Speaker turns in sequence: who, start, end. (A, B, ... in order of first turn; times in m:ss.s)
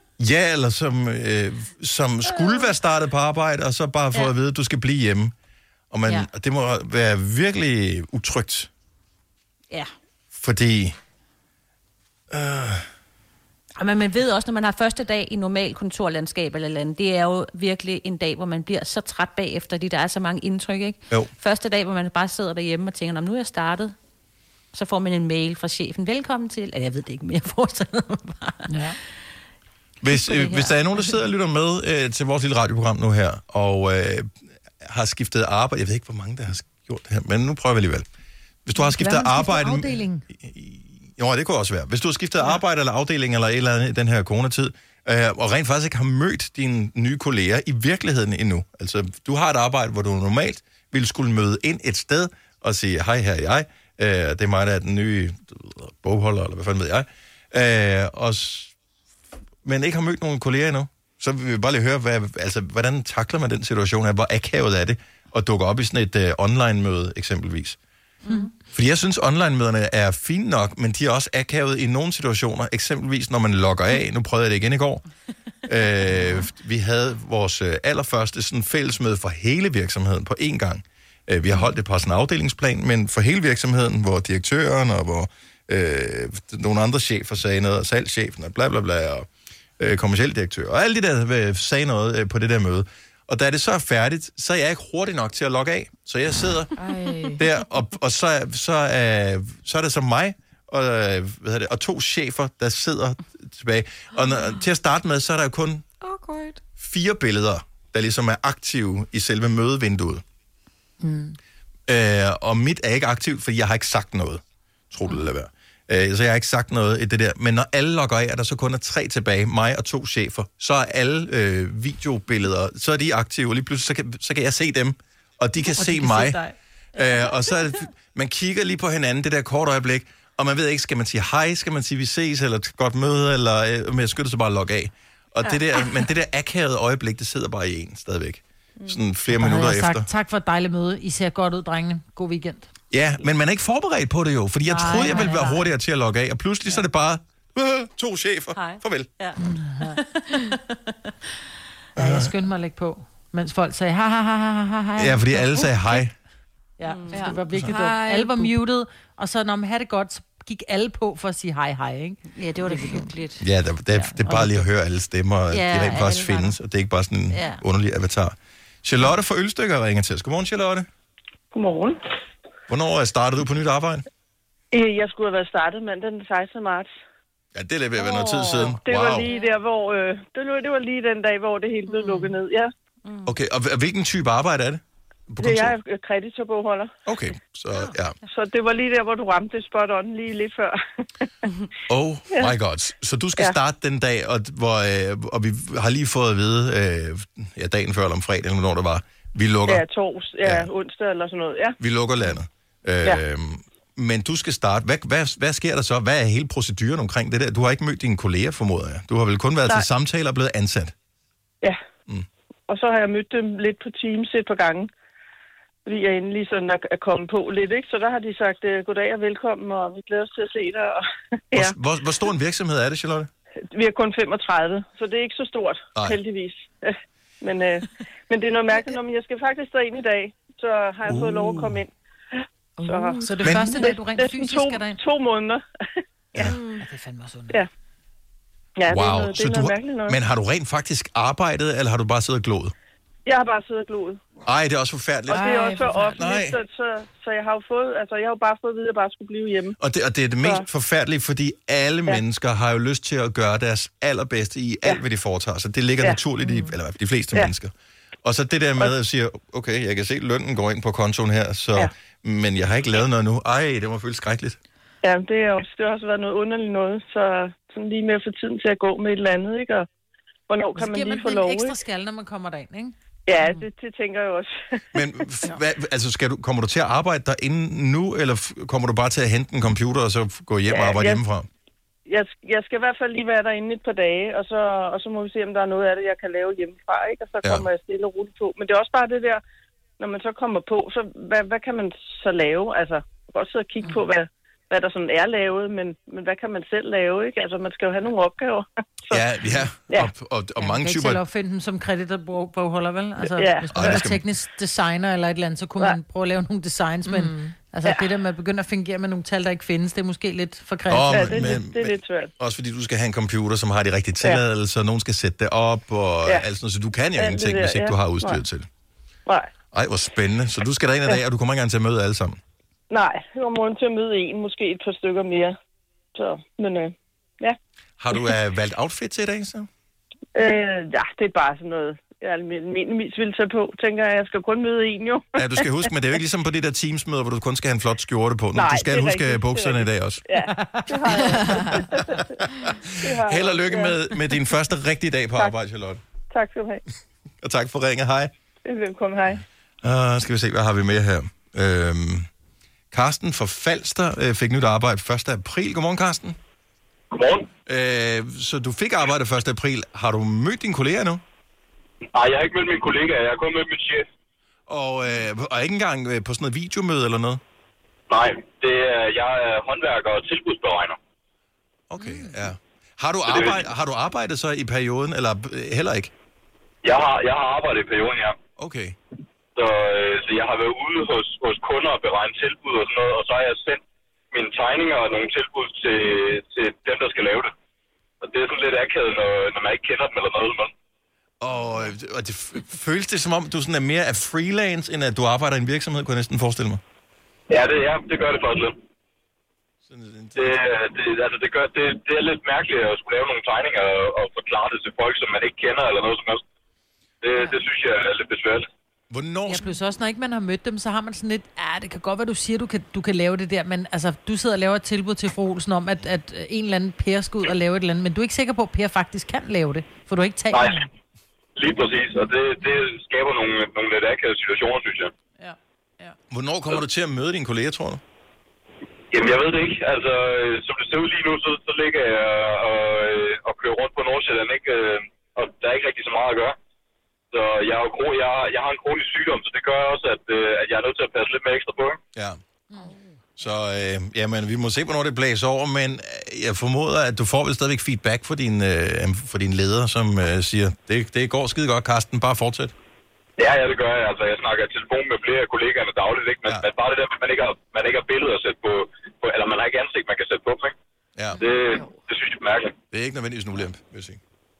0:00.2-0:05.3 A
0:02.2-0:02.7 B
0:05.9-0:08.7 A
0:10.3-0:11.0 A
0:12.3-0:12.9 A
0:13.8-0:23.9 B
0:24.7-0:28.7 B
0:28.7-0:29.0 C
0:30.0-0:38.0 A
0:30.0-0:31.1 B
0:38.6-0:58.7 A
0:38.7-0:40.2 C
0:59.6-1:07.8 A
1:08.7-1:15.0 A
1:15.6-1:29.3 A
1:29.8-1:36.7 A
1:36.8-1:37.4 D
1:37.4-1:45.8 A
1:46.0-1:46.6 D
1:46.8-1:50.2 A
1:51.0-1:51.4 C
1:51.9-2:06.4 A
2:05.8-2:06.5 C
2:06.9-2:20.1 A
2:19.3-2:22.7 C
2:22.9-2:29.1 A
2:24.7-2:25.7 C
2:28.5-2:30.8 B
2:29.4-2:30.0 C
2:32.0-2:32.3 A
2:32.0-2:36.0 C
2:35.0-2:36.1 A
2:36.8-2:43.1 C
2:36.8-2:37.3 B
2:37.1-2:38.5 D
2:42.3-2:43.4 B
2:43.4-2:50.9 A
2:43.9-2:44.5 C
2:45.5-2:46.6 B
2:47.3-2:47.6 B
2:51.5-2:52.0 E
2:52.7-2:54.0 A
2:54.7-2:56.9 E
2:57.5-2:59.3 A
2:58.0-3:02.7 E
2:59.2-2:59.6 B
3:03.0-3:03.4 B
3:03.2-3:05.8 A
3:05.4-3:06.9 E
3:07.0-3:08.2 A
3:08.2-3:11.2 E
3:11.9-3:19.8 A
3:19.7-3:22.3 E
3:20.4-3:20.7 A
3:21.8-3:30.9 A
3:32.7-3:34.9 E
3:35.8-3:41.0 E
3:41.5-3:43.3 A
3:43.7-3:51.9 E
3:51.0-3:51.8 A
3:52.8-3:53.9 D
3:52.8-3:56.5 E
3:53.2-3:55.0 C
3:53.4-3:53.8 A
3:56.4-3:56.8 D
3:56.8-3:57.6 C
3:58.8-4:00.2 E
3:58.9-4:02.7 A
4:03.2-4:04.2 E
4:04.4-4:06.6 A
4:05.3-4:09.8 E
4:05.3-4:06.2 D
4:09.8-4:17.7 A
4:18.2-4:24.6 A
4:25.0-4:29.9 E
4:30.5-4:31.8 E
4:30.8-4:33.6 C
4:33.3-4:35.0 E
4:34.9-4:41.5 A
4:40.7-4:41.2 E
4:42.1-4:49.4 E
4:50.0-4:59.2 E
4:59.1-5:01.2 A
5:00.6-5:11.6 C
5:03.2-5:04.0 E
5:03.7-5:04.2 A
5:07.0-5:07.5 D
5:07.8-5:08.1 E
5:10.9-5:18.7 A
5:11.0-5:12.3 E
5:17.2-5:18.4 E
5:19.7-5:22.4 A
5:22.9-5:25.6 E
5:26.1-5:27.6 E
5:28.0-5:29.7 A
5:30.3-5:35.9 E
5:35.4-5:40.2 A
5:38.5-5:42.4 E
5:40.5-5:41.8 C
5:41.2-5:41.8 D
5:42.1-5:46.0 A
5:43.0-5:44.4 E
5:46.3-5:46.8 E
5:47.4-5:48.3 A
5:48.6-5:49.4 E
5:49.8-5:52.3 A
5:52.9-5:56.4 A
5:57.1-5:57.5 F
5:57.6-6:01.2 A
6:02.1-6:04.1 F
6:04.7-6:07.4 A
6:08.1-6:11.0 F
6:11.9-6:16.1 A
6:12.0-6:12.4 C
6:13.3-6:13.6 F
6:16.8-6:18.4 F
6:18.6-6:19.0 A
6:19.5-6:27.5 F
6:28.2-6:30.7 F
6:31.4-6:36.8 A
6:37.5-6:38.8 F
6:39.9-6:40.6 A
6:40.4-6:46.4 F
6:47.2-6:48.7 F
6:49.1-6:49.6 A
6:49.5-7:00.8 C
7:00.5-7:00.9 F
7:01.6-7:05.1 F
7:05.4-7:06.1 C
7:06.3-7:08.0 A
7:09.1-7:16.5 F
7:17.3-7:22.0 F
7:23.4-7:32.7 A
7:33.4-7:40.7 F
7:41.2-7:41.4 A
7:41.4-7:42.7 F
7:41.4-7:42.0 D
7:42.9-7:44.2 A